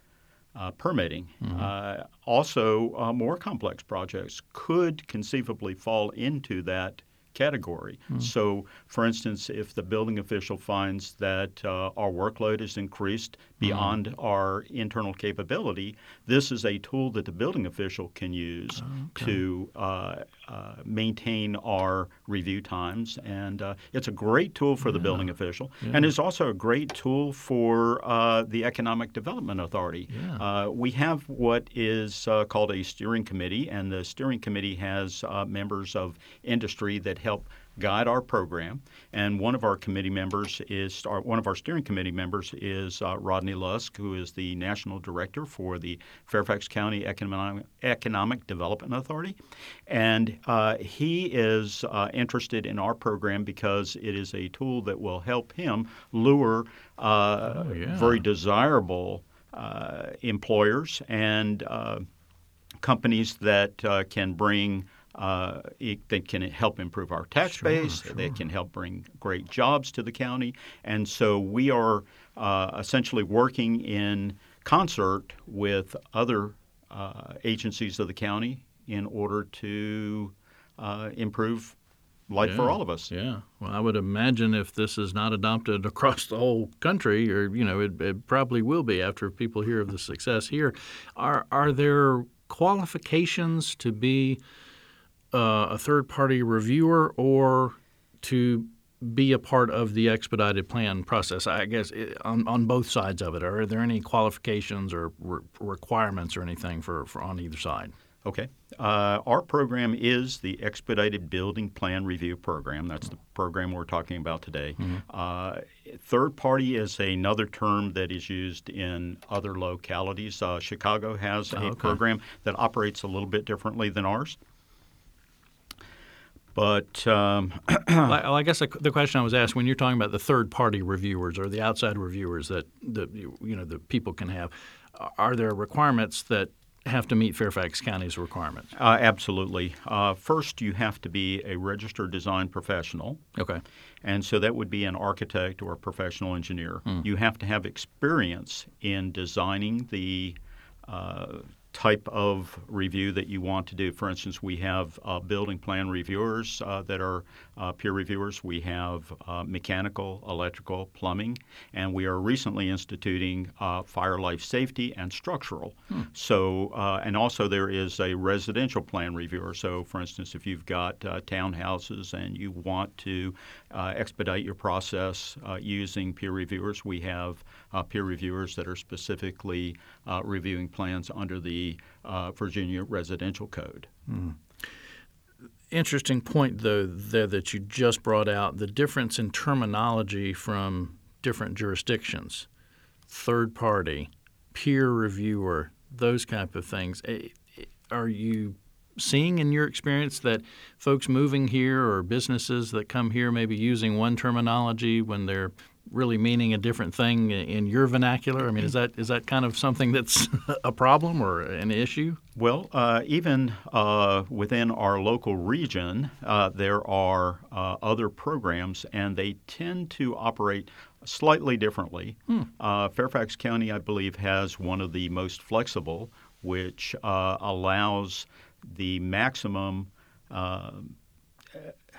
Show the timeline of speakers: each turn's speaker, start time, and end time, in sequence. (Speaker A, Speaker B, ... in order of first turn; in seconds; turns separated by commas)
Speaker A: 0.5-62.0, Speaker B: 1.4-1.7, Speaker B: 13.6-13.9, Speaker B: 18.8-19.3, Speaker B: 30.1-30.4, Speaker B: 57.5-58.2, Speaker A: 62.8-81.8, Speaker B: 67.6-68.3, Speaker A: 82.3-83.1, Speaker B: 82.4-94.4, Speaker B: 95.3-107.9, Speaker A: 108.2-124.4, Speaker B: 121.5-122.0, Speaker A: 126.5-128.1, Speaker B: 128.1-138.7, Speaker A: 138.7-143.2, Speaker B: 143.3-143.6, Speaker A: 144.0-183.9, Speaker B: 184.1-184.4, Speaker B: 185.7-192.5, Speaker B: 193.1-212.2, Speaker A: 212.3-230.9